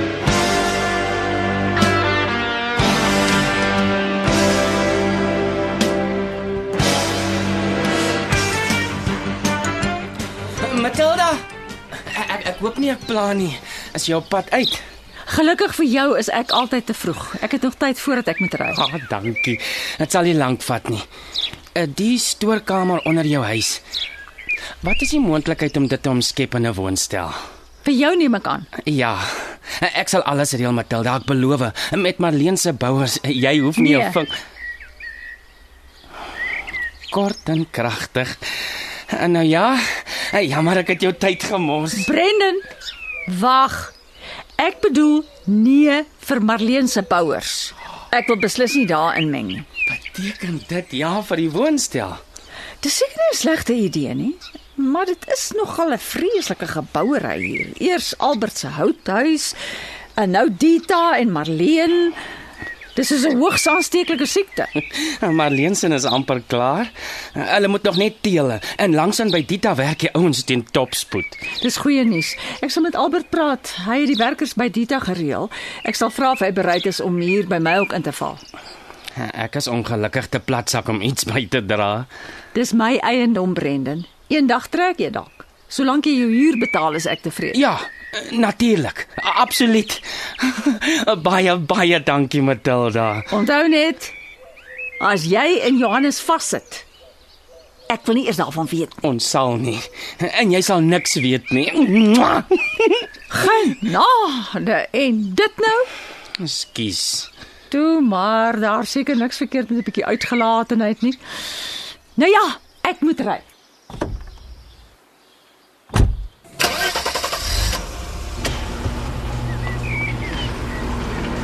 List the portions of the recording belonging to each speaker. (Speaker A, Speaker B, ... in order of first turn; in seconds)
Speaker A: 10.6-11.4, 12.1-14.8, 18.7-21.1, 21.8-23.8, 24.8-27.4, 28.9-34.3, 37.1-38.4, 39.1-42.1, 49.9-52.2, 64.8-71.4, 79.2-82.1, 87.5-93.3, 99.0-103.0, 106.4-107.3
Speaker B: 15.3-18.8, 27.8-28.7, 33.8-34.2, 42.0-42.6, 43.3-44.0, 44.6-49.7, 52.8-59.6, 60.2-62.2, 63.0-64.7, 71.6-78.4, 82.5-87.6, 93.3-94.1, 95.0-96.8, 97.9-99.0, 103.3-105.9, 107.7-111.2, 112.2-113.5